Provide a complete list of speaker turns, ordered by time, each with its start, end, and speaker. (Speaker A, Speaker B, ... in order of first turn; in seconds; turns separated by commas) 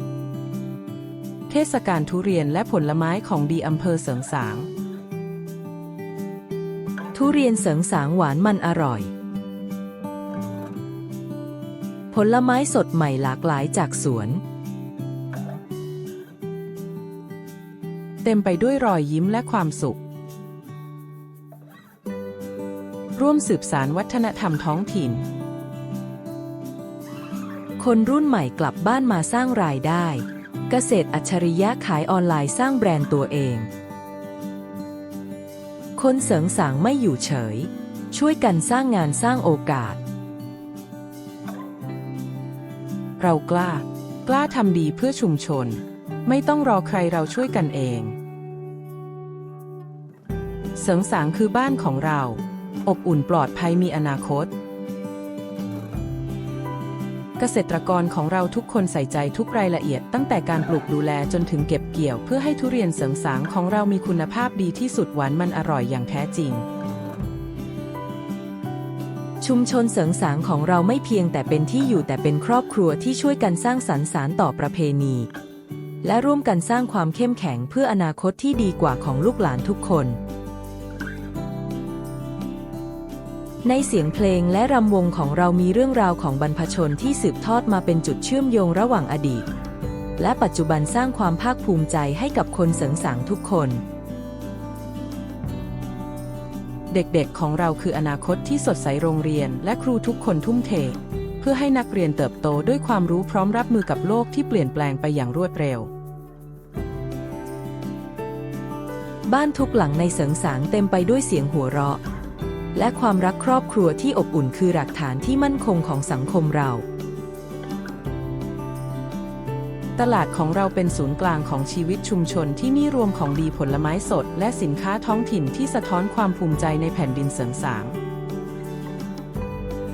Speaker A: 1.5-4.7, Speaker B: 7.1-9.1, Speaker B: 12.1-14.4, Speaker A: 18.2-20.0, Speaker A: 23.2-25.3, Speaker B: 27.8-33.7, Speaker B: 36.0-40.0, Speaker A: 43.2-48.2, Speaker A: 50.8-54.5, Speaker A: 57.4-66.7, Speaker B: 69.4-75.3, Speaker B: 76.0-80.2, Speaker B: 83.6-89.5, Speaker B: 90.2-93.8, Speaker A: 96.9-105.9, Speaker B: 109.3-112.0, Speaker B: 112.7-116.8, Speaker A: 120.0-128.0